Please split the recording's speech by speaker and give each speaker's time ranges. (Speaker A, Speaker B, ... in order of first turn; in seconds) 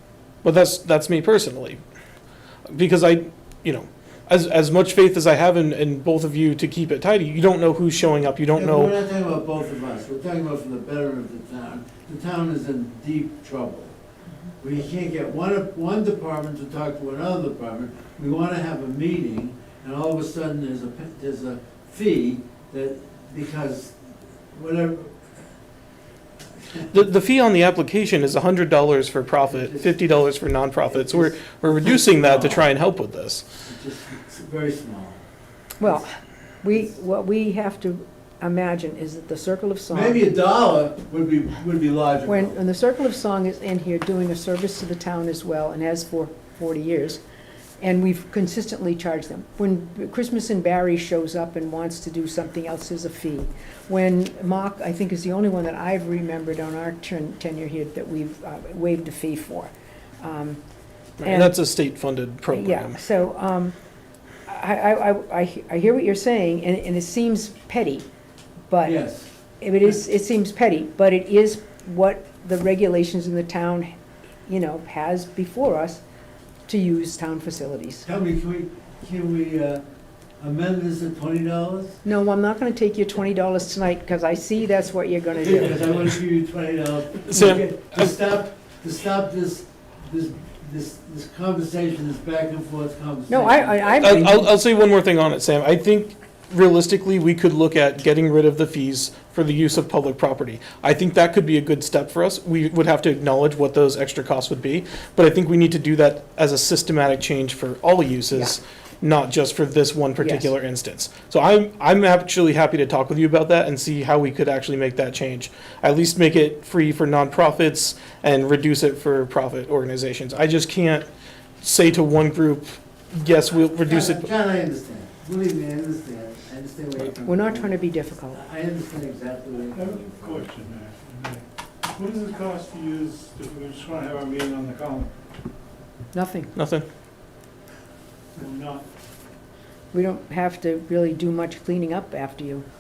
Speaker A: 0.4-1.8, 2.7-8.9, 26.9-33.4, 61.2-63.0, 87.3-88.2, 94.0-121.1, 121.6-124.3, 136.6-136.8
Speaker B: 8.6-14.0, 14.6-24.0, 24.5-25.3, 29.5-30.0, 30.9-32.7, 33.6-35.2, 39.9-42.6, 68.8-69.3, 78.0-79.8, 80.4-82.0, 85.4-94.2, 123.7-130.5
Speaker C: 35.8-40.2, 42.3-47.2, 47.8-60.6, 61.2-61.6, 62.5-63.8, 64.5-68.1, 68.7-69.0, 69.6-73.9, 74.5-76.0, 76.7-78.0, 82.0-85.9, 93.3-94.5, 110.2-110.5, 127.3-128.4, 136.1-136.5, 139.9-142.7
Speaker D: 129.7-135.1, 138.4-138.9